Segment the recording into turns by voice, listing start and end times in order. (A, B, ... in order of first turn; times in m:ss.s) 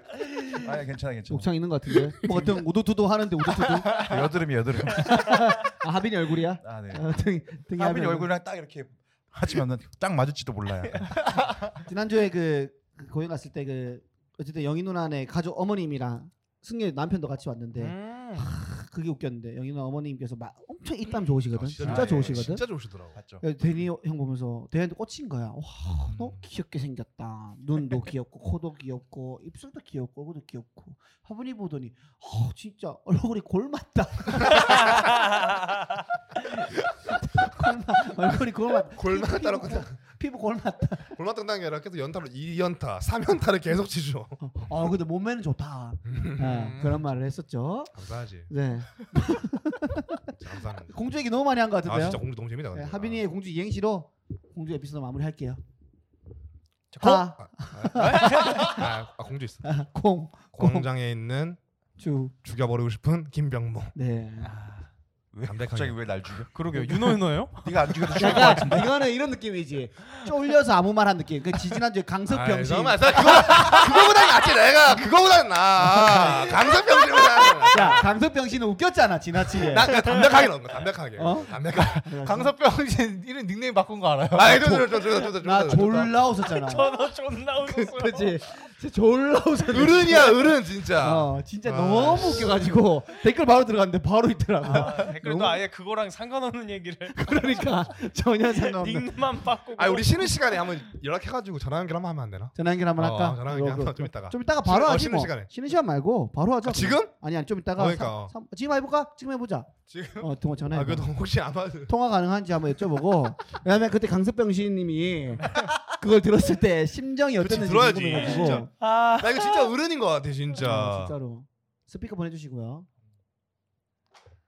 0:00.6-0:01.5 A
0:01.3-0:04.1 B
0:03.7-0:04.2 C
0:03.9-0:05.4 A
0:04.9-0:08.3 B
0:06.6-0:07.0 A
0:07.7-0:11.3 A
0:11.2-0:11.5 C
0:11.8-0:22.7 B
0:17.7-0:18.5 D
0:21.4-0:23.2 E
0:21.8-0:22.6 A
0:23.1-0:23.4 A
0:23.4-0:35.2 B
0:26.0-0:26.4 E
0:37.1-0:41.1 B
0:39.0-0:40.0 E
0:41.1-0:44.4 E
0:44.4-0:47.9 B
0:46.1-0:46.7 E
0:46.4-0:47.0 D
0:47.9-0:48.5 E
0:48.5-0:50.3 B
0:50.4-0:51.0 E
0:50.8-0:55.6 B
0:51.8-0:53.2 E
0:56.9-0:57.3 D
0:57.0-0:58.9 B
0:57.4-0:59.8 E
0:57.9-0:58.6 D
0:59.6-1:00.9 B
1:00.5-1:01.6 E
1:02.0-1:02.3 B
1:02.4-1:03.9 E
1:03.9-1:04.5 B
1:05.3-1:06.5 A
1:05.5-1:06.0 E
1:06.5-1:08.5 D
1:07.6-1:09.0 A
1:08.1-1:14.0 B
1:12.3-1:18.1 E
1:15.8-1:16.8 B
1:17.7-1:20.1 B
1:19.5-1:22.0 E
1:21.2-1:22.5 B
1:21.7-1:25.1 C
1:24.3-1:26.2 E
1:25.4-1:26.9 B
1:26.4-1:28.4 D
1:27.6-1:35.2 B
1:29.7-1:32.6 E
1:34.6-1:37.7 D
1:35.2-1:35.6 E
1:37.1-1:39.1 B
1:38.4-1:40.8 D
1:39.8-1:45.5 E
1:42.5-1:51.1 B
1:46.6-1:47.1 E
1:47.8-1:48.3 E
1:49.9-1:50.3 C
1:50.7-1:51.9 E
1:51.9-1:58.7 B
1:57.4-2:01.1 E
1:58.1-1:59.7 D
2:00.6-2:02.9 B